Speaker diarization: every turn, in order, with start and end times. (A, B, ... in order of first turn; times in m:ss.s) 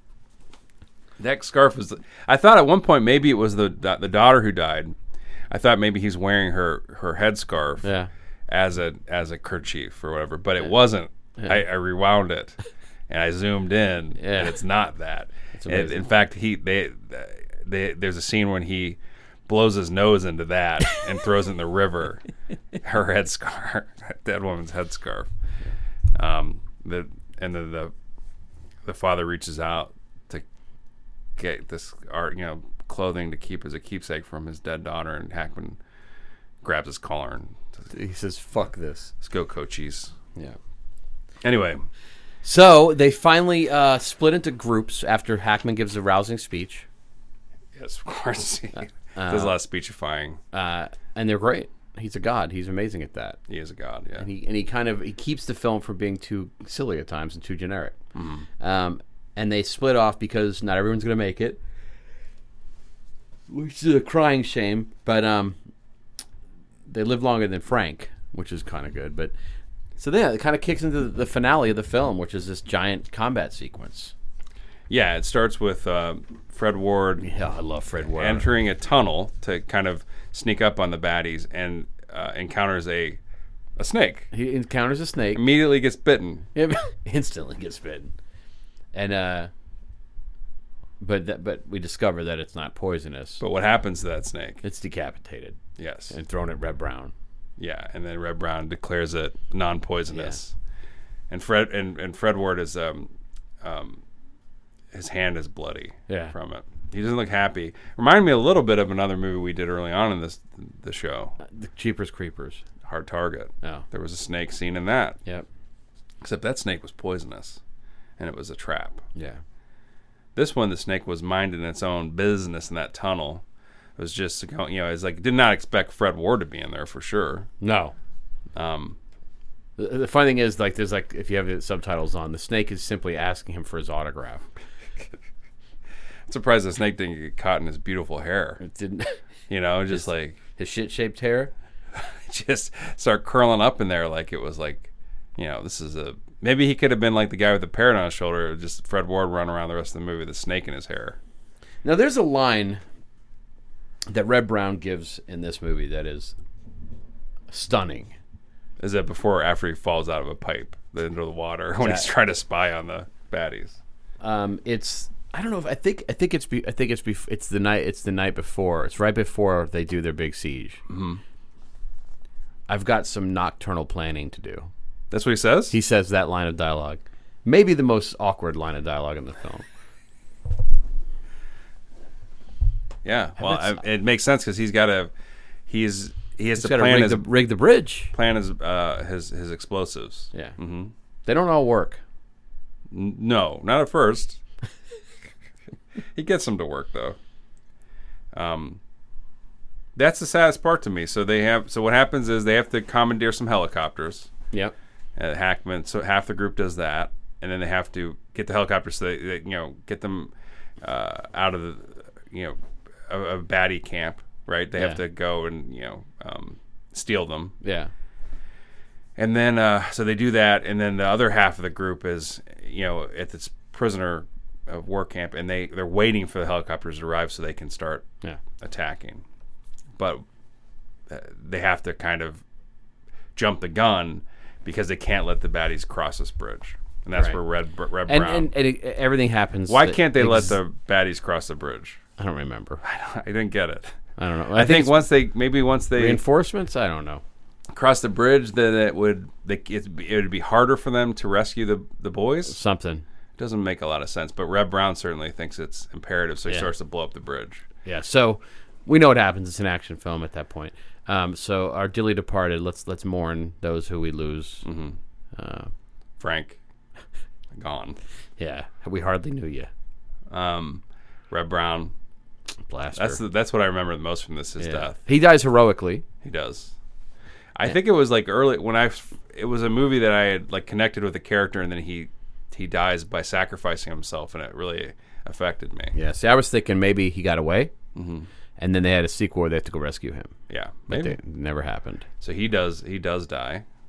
0:01.2-0:04.9 A
0:05.5-0:07.9 A
0:07.8-0:08.1 B
0:08.5-0:12.6 A
0:13.1-0:22.2 A
0:14.2-0:14.6 B
0:15.6-0:16.1 B
0:22.8-0:25.3 A
0:26.1-0:27.9 A
0:28.8-0:30.4 A
0:31.4-0:35.8 A
0:36.6-0:37.8 A
0:37.9-0:39.1 B
0:39.2-0:40.1 A
0:41.4-0:41.8 A
0:42.4-0:46.8 B
0:47.8-0:50.4 A
0:48.8-0:49.5 B
0:50.5-0:53.4 B
0:53.5-0:54.3 A
0:54.2-0:58.0 B
0:58.1-0:58.5 A
0:58.6-1:01.6 B
1:03.5-1:05.6 B
1:06.9-1:09.3 B
1:10.0-1:14.1 B
1:14.9-1:17.2 A
1:17.2-1:18.5 B
1:18.2-1:23.2 A
1:23.8-1:24.3 A
1:24.3-1:25.4 B
1:25.3-1:26.5 A
1:26.5-1:28.1 B
1:28.9-1:29.5 B
1:31.0-1:33.4 B
1:33.4-1:34.6 A
1:34.6-1:37.1 B
1:35.8-1:36.1 A
1:37.6-1:40.5 A
1:40.1-1:40.4 B
1:41.3-1:43.1 A
1:43.6-1:44.0 A
1:44.9-1:51.4 A
1:46.1-1:46.3 B
1:51.4-1:52.6 B
1:52.8-1:55.2 A
1:56.2-1:57.6 A
1:58.2-1:59.0 A
2:00.3-2:03.4 A
2:04.0-2:07.5 A
2:07.6-2:07.9 B
2:08.5-2:09.0 A
2:09.8-2:14.4 B
2:16.3-2:18.6 A
2:18.6-2:19.2 B
2:19.5-2:20.4 A
2:19.9-2:21.5 B
2:22.0-2:31.2 A
2:31.8-2:32.8 B
2:34.1-2:36.3 B
2:37.5-2:38.1 B
2:38.8-2:43.8 A
2:41.8-2:42.1 B
2:44.2-2:50.8 B
2:50.9-2:51.2 A
2:52.7-2:54.7 B
2:55.1-2:55.7 A
2:55.7-2:59.6 B
3:03.0-3:05.1 A
3:03.4-3:03.8 B
3:05.7-3:07.3 A
3:06.6-3:08.1 B
3:08.1-3:10.9 A
3:11.2-3:12.0 B
3:12.9-3:14.4 A
3:16.1-3:17.2 A
3:18.3-3:18.8 A
3:20.0-3:24.3 A
3:25.2-3:30.3 A
3:30.8-3:32.6 A
3:33.1-3:37.6 A
3:37.6-3:37.9 B
3:39.2-3:49.2 A
3:50.0-3:50.2 A
3:51.1-3:52.4 A
3:53.4-3:58.5 A
3:58.1-4:00.6 B
3:59.7-4:02.0 A
4:02.2-4:02.8 B
4:02.8-4:04.0 A
4:04.2-4:05.0 B
4:04.6-4:06.2 A
4:05.9-4:07.2 B
4:07.7-4:12.6 A
4:12.4-4:13.0 B
4:13.4-4:17.6 A
4:17.8-4:24.6 B
4:24.6-4:25.0 A
4:25.3-4:25.7 B
4:26.2-4:26.6 A
4:27.5-4:28.0 A
4:28.4-4:29.7 B
4:30.3-4:31.9 A
4:32.7-4:33.2 B
4:33.0-4:35.0 A
4:34.6-4:36.0 B
4:36.2-4:36.7 A
4:37.5-4:45.9 A
4:45.9-4:47.7 B
4:47.9-4:48.3 A
4:48.6-4:50.3 B
4:50.5-4:51.2 A
4:50.9-4:52.0 B
4:52.2-4:53.6 A